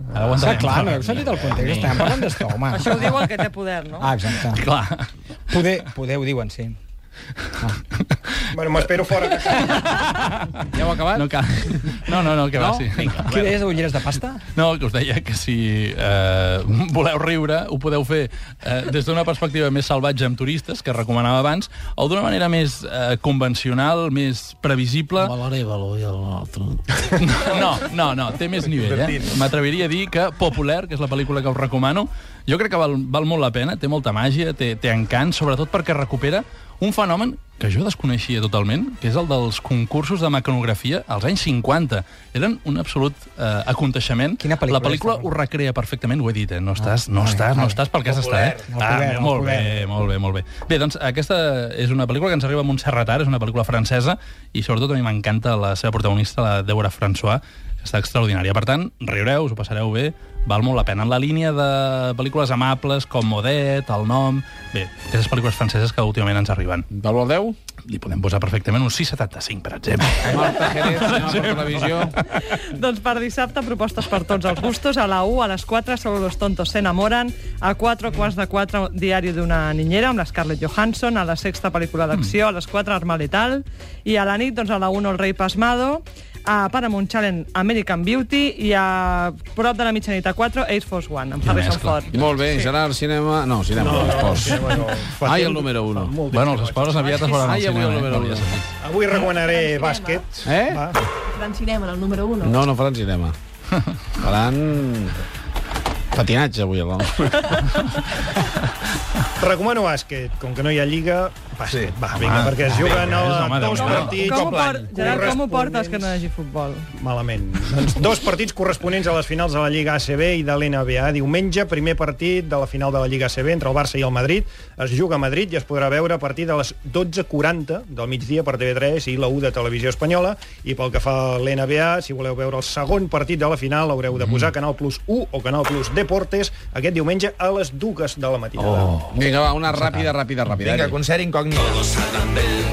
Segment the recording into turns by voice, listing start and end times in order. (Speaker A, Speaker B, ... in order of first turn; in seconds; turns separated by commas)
Speaker A: 0.1-2.4, Speaker B: 0.3-3.3, Speaker C: 1.3-1.9, Speaker D: 2.7-4.1, Speaker B: 4.0-4.7, Speaker A: 4.3-5.1, Speaker B: 5.5-6.8, Speaker A: 7.6-13.5, Speaker E: 8.5-9.9, Speaker C: 10.7-11.3, Speaker C: 12.5-13.6, Speaker B: 13.2-14.4, Speaker A: 14.5-25.3, Speaker C: 25.2-27.0, Speaker A: 27.0-66.8, Speaker F: 28.8-29.4, Speaker B: 44.4-45.3, Speaker B: 46.8-47.8, Speaker F: 48.0-48.6, Speaker B: 48.7-49.9, Speaker C: 66.9-67.6, Speaker A: 67.8-72.1, Speaker C: 70.2-72.1, Speaker D: 72.4-92.7, Speaker A: 91.4-92.2, Speaker C: 92.1-96.2, Speaker E: 93.7-97.6, Speaker A: 96.3-98.7, Speaker C: 97.3-98.6, Speaker E: 98.8-100.9, Speaker G: 99.1-100.2, Speaker C: 100.4-100.9, Speaker G: 101.3-102.6, Speaker C: 102.4-103.4, Speaker C: 104.2-105.2, Speaker C: 106.1-107.6, Speaker E: 109.4-116.2, Speaker F: 111.7-111.9, Speaker A: 112.1-114.2, Speaker D: 113.9-116.9, Speaker F: 114.2-115.1, Speaker E: 116.9-139.0, Speaker A: 134.1-134.5, Speaker A: 138.6-139.2, Speaker C: 139.1-141.0, Speaker A: 139.7-140.1, Speaker F: 140.5-142.2